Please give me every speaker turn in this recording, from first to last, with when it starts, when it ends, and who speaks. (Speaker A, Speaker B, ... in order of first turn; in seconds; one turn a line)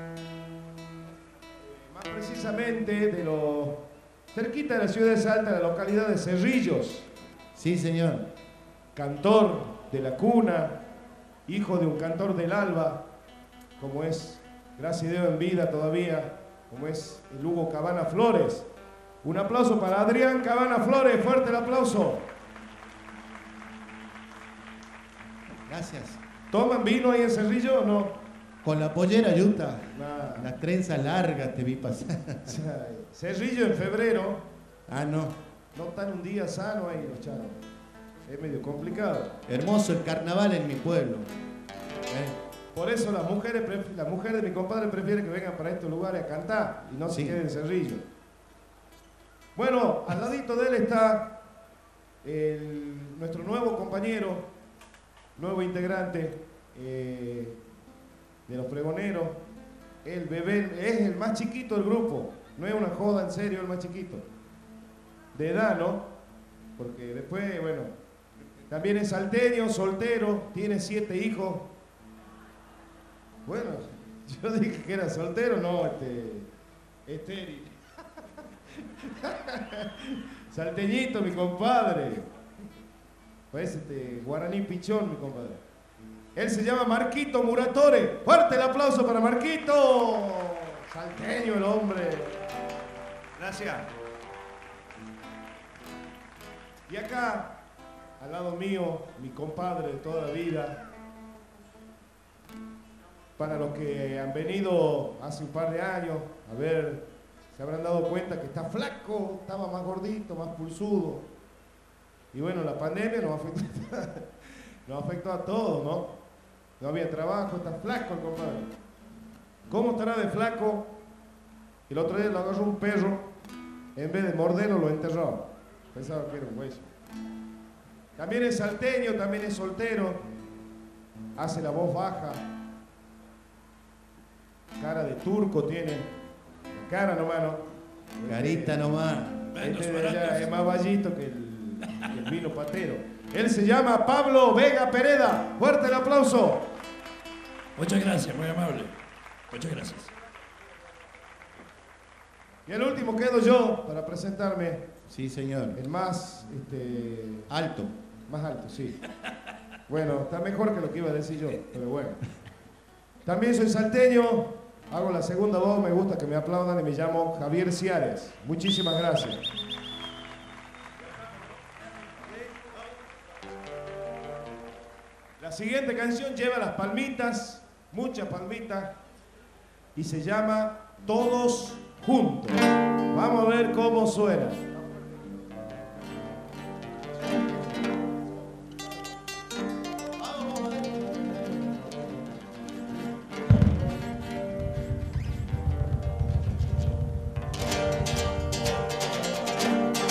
Speaker A: 1.6-7.1
Speaker B: 7.6-8.3
Speaker A: 8.9-10.8
Speaker A: 11.5-13.0
Speaker A: 13.8-18.7
Speaker A: 19.2-22.3
Speaker B: 25.7-26.2
Speaker A: 26.5-28.2
Speaker B: 28.6-32.6
Speaker A: 29.9-30.5
Speaker A: 32.5-34.5
Speaker B: 34.9-35.4
Speaker A: 35.8-37.6
Speaker A: 38.3-39.4
Speaker B: 39.5-41.3
Speaker B: 42.1-42.4
Speaker A: 42.7-48.0
Speaker B: 47.1-47.4
Speaker A: 49.5-51.4
Speaker A: 52.2-54.5
Speaker A: 55.4-57.6
Speaker A: 58.5-59.4
Speaker A: 60.0-64.2
Speaker A: 65.3-66.1
Speaker A: 66.8-67.9
Speaker A: 68.7-71.7
Speaker A: 73.5-76.5
Speaker A: 77.1-77.8
Speaker A: 79.0-82.3
Speaker A: 83.5-85.6
Speaker A: 86.3-92.4
Speaker A: 93.4-93.9
Speaker A: 96.9-97.6
Speaker A: 98.2-100.8
Speaker A: 103.4-111.3
Speaker A: 112.3-114.3
Speaker A: 114.9-116.2
Speaker A: 116.8-118.7
Speaker A: 119.7-121.0
Speaker A: 121.9-123.3
Speaker A: 124.0-126.9
Speaker A: 128.2-130.2
Speaker A: 131.4-132.4
Speaker A: 134.8-136.1
Speaker A: 136.8-137.7
Speaker A: 138.2-138.8
Speaker B: 138.3-139.5
Speaker C: 139.6-140.5
Speaker A: 139.6-146.7
Speaker C: 147.8-148.9
Speaker C: 149.5-150.1
Speaker A: 152.7-154.9
Speaker B: 155.1-155.8
Speaker A: 155.8-157.5
Speaker B: 157.5-157.9
Speaker A: 158.3-159.0
Speaker A: 159.9-162.2
Speaker A: 163.2-169.4
Speaker A: 175.4-179.0
Speaker A: 179.9-184.7
Speaker B: 190.3-190.9